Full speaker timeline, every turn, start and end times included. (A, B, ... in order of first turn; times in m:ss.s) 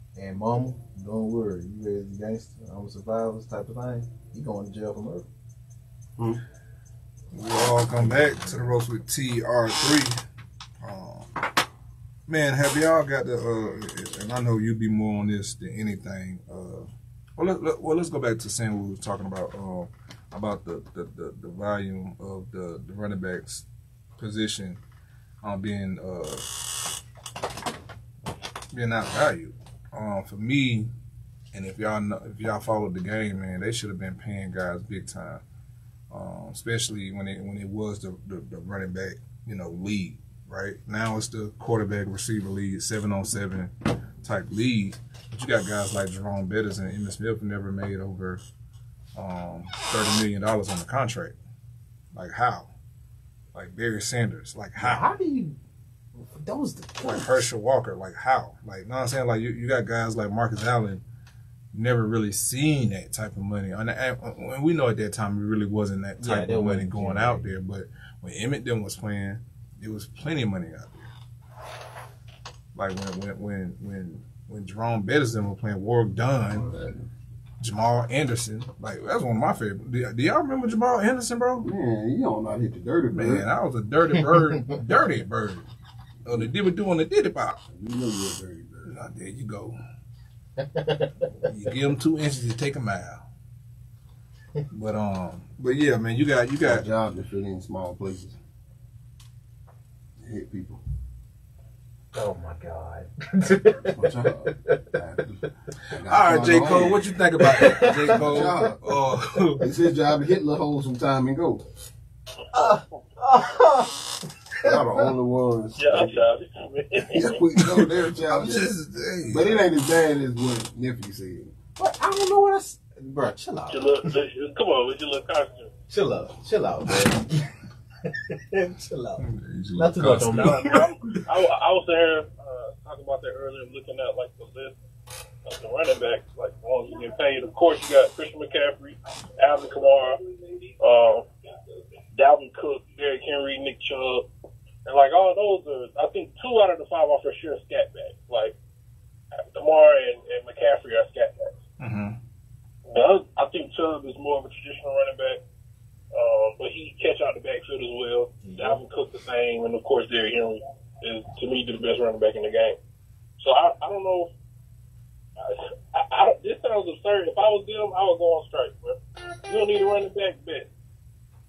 0:00.2-0:05.3 A
0:07.3-0:10.2 B
0:07.9-0:08.8 A
0:10.8-0:11.3 B
0:12.3-0:23.6 B
0:24.2-0:24.8 B
0:25.4-0:26.6 B
0:28.7-0:30.9 B
0:31.5-0:35.4 B
0:36.1-0:48.4 B
0:49.1-0:51.4 B
0:52.1-0:52.7 B
0:53.5-0:55.1 B
0:54.8-0:55.6 A
0:56.2-0:57.5 A
0:57.0-1:01.0 B
1:01.7-1:11.1 B
1:06.2-1:07.6 A
1:12.8-1:16.7 B
1:16.5-1:17.1 C
1:17.6-1:21.7 B
1:21.6-1:23.5 C
1:23.1-1:25.7 B
1:26.2-1:27.6 B
1:27.7-1:28.9 C
1:28.8-1:29.8 B
1:30.6-1:31.3 A
1:31.4-1:33.2 B
1:34.7-1:36.9 B
1:36.6-1:38.4 C
1:40.2-1:40.8 C
1:42.1-1:44.9 A
1:43.8-1:47.1 C
1:45.9-1:49.6 B
1:47.3-1:48.6 A
1:47.9-1:48.8 C
1:49.6-1:51.6 C
1:52.5-1:54.8 A
1:52.6-1:53.0 D
1:54.6-1:56.2 C
1:55.8-1:57.4 D
1:57.1-1:58.7 C
1:57.6-1:59.6 B
1:59.3-2:01.5 C
2:01.8-2:04.1 A
2:03.7-2:05.7 D
2:05.9-2:07.5 A
2:08.1-2:09.2 A
2:09.2-2:10.9 B
2:09.8-2:10.8 A
2:10.3-2:14.8 D
2:15.4-2:21.2 D
2:22.1-2:24.2 D
2:24.9-2:28.5 D
2:29.5-2:31.6 D
2:31.8-2:32.2 B
2:32.9-2:35.4 D
2:36.1-2:42.8 D
2:38.4-2:38.8 A
2:43.4-2:44.3 D
2:45.4-2:50.7 D